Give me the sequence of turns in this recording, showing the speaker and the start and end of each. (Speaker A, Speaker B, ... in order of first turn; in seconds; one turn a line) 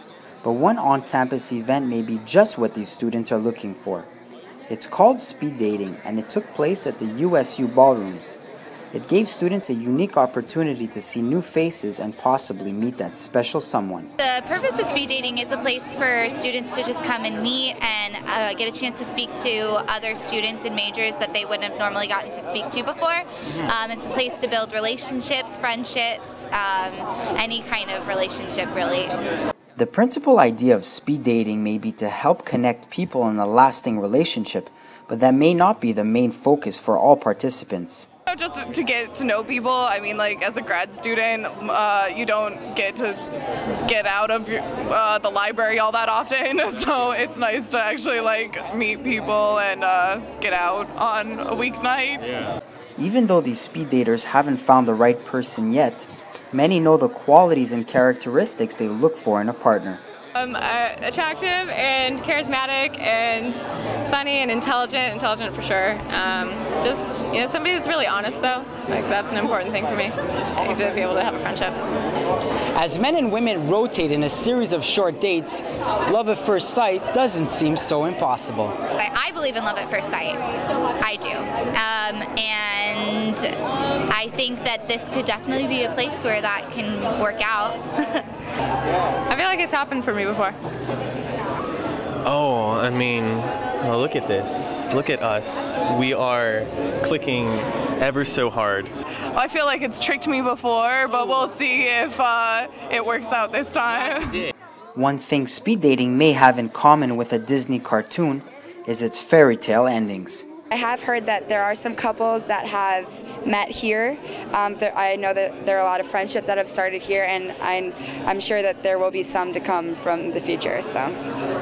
Speaker A: 0.4-4.1
Speaker A: 4.7-8.4
Speaker A: 8.9-14.1
Speaker B: 14.2-29.1
Speaker A: 29.8-38.1
Speaker C: 38.3-43.2
Speaker C: 43.9-52.3
Speaker A: 53.0-60.0
Speaker D: 60.4-71.8
Speaker A: 72.8-78.8
Speaker B: 79.0-80.4
Speaker B: 81.0-83.5
Speaker B: 84.1-88.3
Speaker D: 89.3-90.6
Speaker E: 92.2-98.9
Speaker C: 99.4-104.5
Speaker A: 105.0-110.5
Speaker F: 110.7-121.1